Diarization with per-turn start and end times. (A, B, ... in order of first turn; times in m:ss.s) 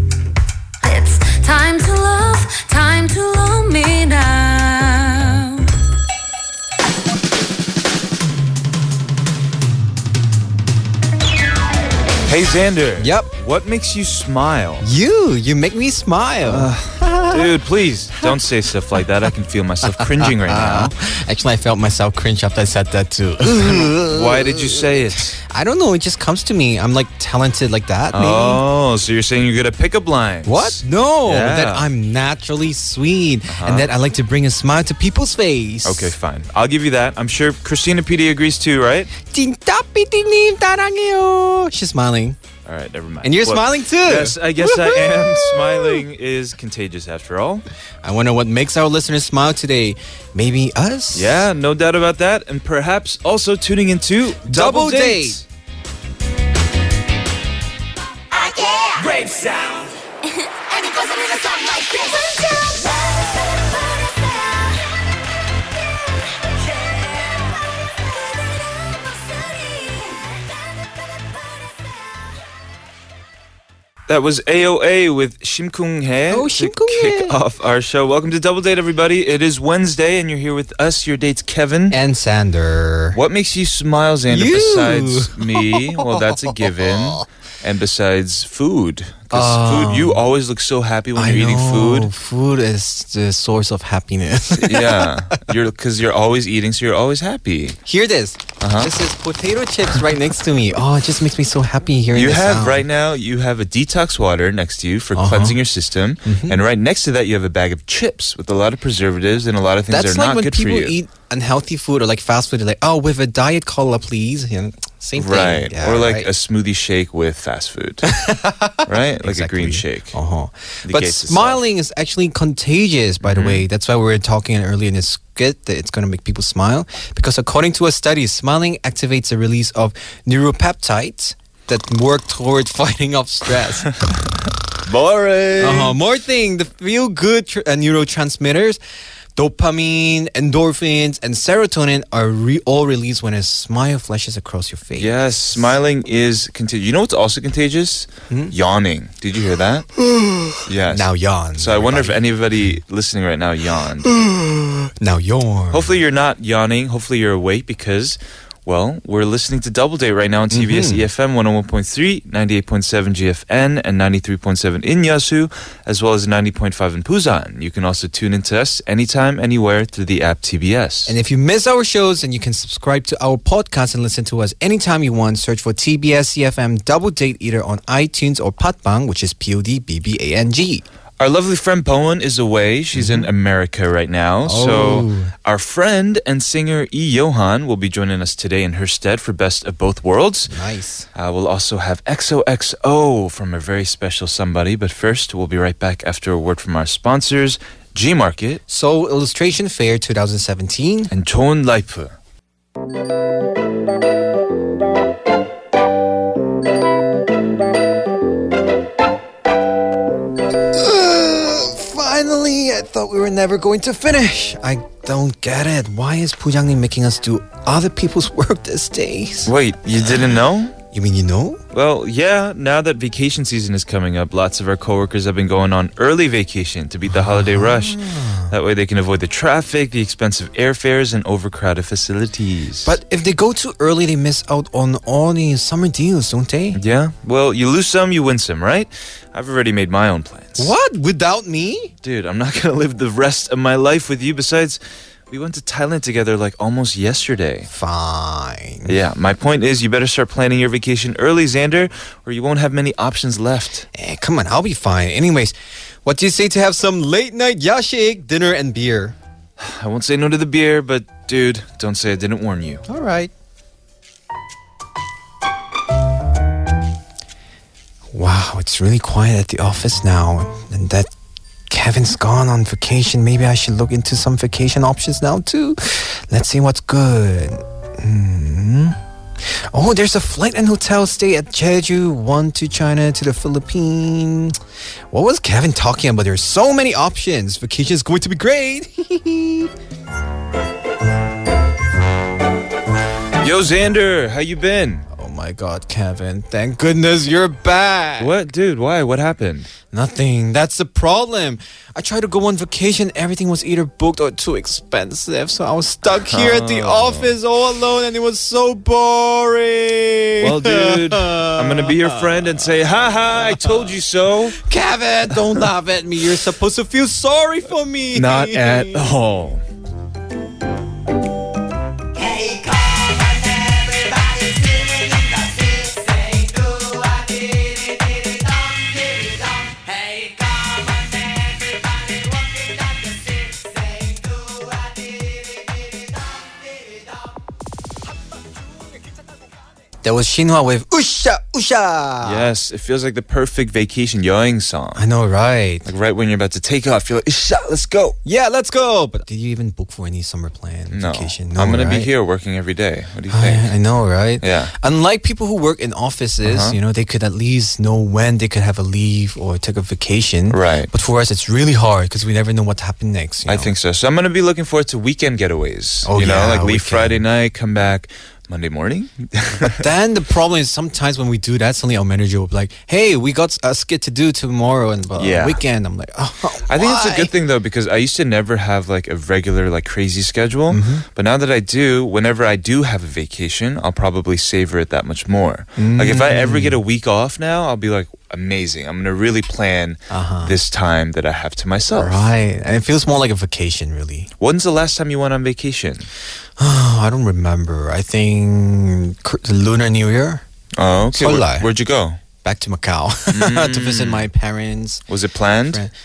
0:00.8-0:05.7 A
0:12.2-0:14.9 B
0:13.0-0:13.3 C
0:14.8-0:17.5 C
0:16.4-0:20.9 B
0:19.9-0:28.6 C
0:23.4-0:25.4 B
0:28.1-0:31.9 B
0:30.4-0:36.1 C
0:33.5-0:33.9 B
0:35.8-0:39.1 B
0:39.2-0:42.4 C
0:42.6-0:47.6 B
0:43.2-0:46.0 C
0:48.0-0:51.5 C
0:51.1-0:55.4 B
0:54.5-0:55.4 C
0:58.4-0:58.9 A
0:59.0-0:59.9 B
1:00.7-1:02.7 A
1:14.1-1:22.0 B
1:16.3-1:17.4 C
1:21.9-1:23.2 C
1:23.1-1:32.1 B
1:24.3-1:26.1 C
1:26.8-1:27.2 C
1:29.3-1:30.2 C
1:31.1-1:35.4 C
1:34.6-1:37.8 B
1:37.8-1:42.8 C
1:38.6-1:38.9 B
1:42.1-1:51.0 B
1:45.1-1:45.6 C
1:46.2-1:46.6 C
1:49.9-1:56.3 C
1:55.2-1:58.2 B
1:58.0-2:14.1 C
1:58.8-2:00.2 B
2:00.8-2:01.6 B
2:03.2-2:03.6 B
2:14.8-2:16.0 B
2:15.6-2:18.8 C
2:19.4-2:25.4 C
2:25.0-2:29.9 B
2:30.0-2:32.3 C
2:30.6-2:34.1 B
2:34.0-2:36.0 C
2:35.7-2:51.2 B
2:40.5-2:41.1 C
2:51.0-3:00.8 C
3:01.2-3:10.5 B
3:02.9-3:03.3 C
3:04.4-3:05.3 C
3:10.5-3:11.1 C
3:11.1-3:18.6 B
3:18.7-3:21.1 C
3:21.1-3:22.2 B
3:30.7-3:39.5 C
3:39.4-3:40.7 B
3:40.9-3:41.6 C
3:41.7-3:52.9 B
3:47.1-3:48.5 C
3:52.8-3:56.8 C
3:56.7-4:00.7 B
4:00.6-4:01.9 C
4:02.0-4:07.7 B
4:07.7-4:09.0 C
4:08.8-4:13.8 B
4:13.9-4:15.5 C
4:16.0-4:19.2 C
4:19.6-4:22.8 B
4:22.9-4:23.3 C
4:28.1-4:31.1 C
4:31.7-4:39.0 C
4:39.7-4:44.6 C
4:45.1-4:49.7 C
4:53.4-4:55.0 B
4:55.1-4:58.3 C
4:58.2-4:59.7 B
4:59.9-5:12.6 C
5:06.2-5:07.4 B
5:10.4-5:14.6 B
5:14.6-5:19.0 C
5:18.1-5:19.6 B
5:40.0-5:42.5 C
5:42.2-5:45.0 B
5:44.9-5:45.9 C
5:45.8-5:48.2 B
5:48.2-5:52.1 C
5:50.9-5:53.7 B
5:53.3-6:03.7 C
5:54.4-5:54.7 B
5:56.4-5:56.8 B
6:00.5-6:00.9 B
6:03.4-6:09.8 B
6:06.0-6:07.2 C
6:09.6-6:17.3 C
6:15.1-6:15.6 B
6:16.6-6:32.3 B
6:20.7-6:21.0 C
6:25.8-6:26.8 C
6:30.1-6:30.6 C
6:31.9-6:34.3 C
6:34.4-6:36.1 B
6:36.6-6:40.4 C
6:40.8-6:42.2 B
6:41.1-6:41.7 C
6:42.4-6:45.0 C
6:43.3-6:44.3 B
6:45.1-6:45.8 B
6:45.7-6:45.9 C